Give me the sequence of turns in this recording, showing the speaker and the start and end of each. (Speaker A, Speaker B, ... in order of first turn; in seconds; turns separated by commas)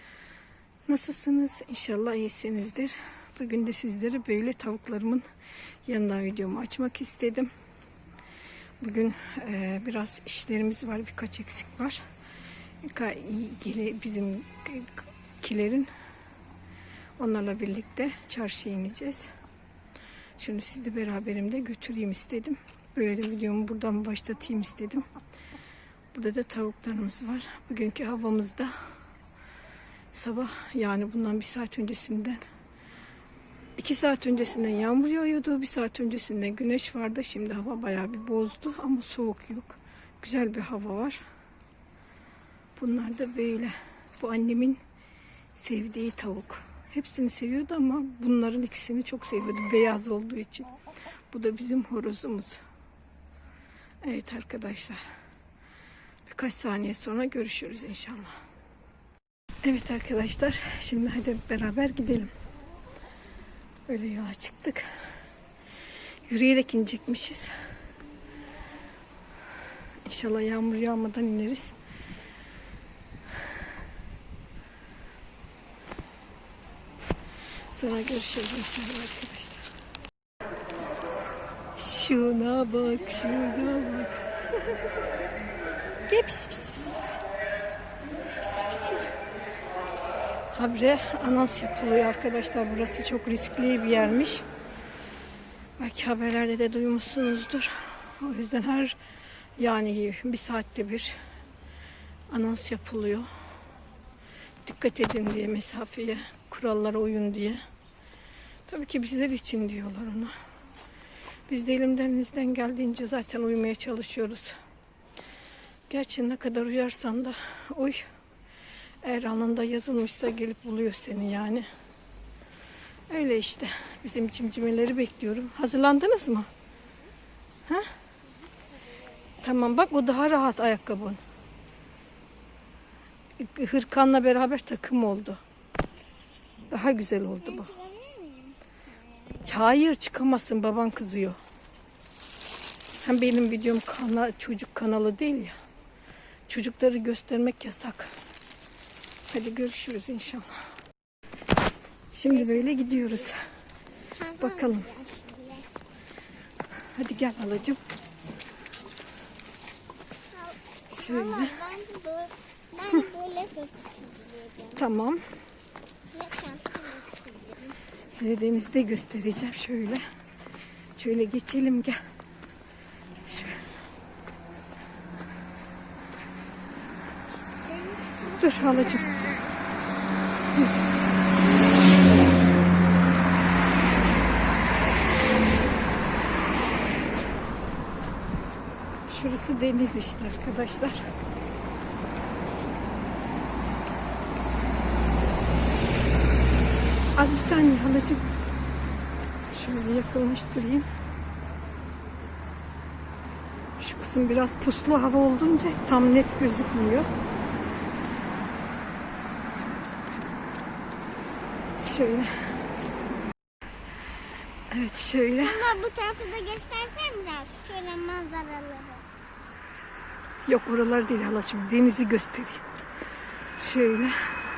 Speaker A: 0.9-5.2, Speaker A: 5.8-7.5, Speaker A: 8.8-12.0, Speaker A: 12.8-15.9, Speaker A: 17.2-19.3, Speaker A: 20.4-25.1, Speaker A: 26.1-28.7, Speaker A: 30.1-32.4, Speaker A: 33.8-41.2, Speaker A: 42.8-44.8, Speaker A: 45.5-50.7, Speaker A: 51.3-52.6, Speaker A: 54.0-55.0, Speaker A: 56.3-58.4, Speaker A: 59.6-62.3, Speaker A: 63.9-64.8, Speaker A: 66.3-67.5, Speaker A: 70.0-71.7, Speaker A: 77.7-79.7, Speaker A: 81.8-84.9, Speaker A: 86.1-87.2, Speaker A: 88.4-89.1, Speaker A: 90.5-94.4, Speaker A: 95.8-99.0, Speaker A: 99.6-101.2, Speaker A: 102.3-103.3, Speaker A: 104.6-107.6, Speaker A: 108.7-110.3, Speaker A: 111.5-114.5, Speaker A: 115.9-118.0, Speaker A: 119.0-121.7, Speaker A: 123.1-126.5, Speaker A: 129.4-131.2, Speaker A: 133.4-135.4, Speaker A: 136.7-137.7, Speaker B: 137.4-139.5, Speaker A: 139.4-141.4, Speaker A: 143.0-145.6, Speaker A: 146.5-148.2, Speaker A: 149.3-150.7, Speaker A: 152.1-153.4, Speaker B: 154.1-155.7, Speaker A: 154.4-154.9, Speaker A: 156.9-157.8, Speaker B: 160.3-164.8, Speaker A: 160.9-161.6, Speaker A: 164.8-165.2, Speaker B: 166.1-167.8, Speaker A: 168.1-170.0, Speaker A: 171.0-172.0, Speaker A: 173.2-173.6, Speaker B: 177.6-179.4, Speaker A: 178.4-179.1, Speaker A: 189.1-191.1, Speaker A: 197.2-198.2, Speaker A: 199.5-200.8, Speaker A: 203.8-207.1, Speaker A: 211.8-212.5, Speaker A: 214.7-215.6, Speaker B: 215.4-219.0, Speaker A: 220.4-222.6, Speaker A: 223.6-224.2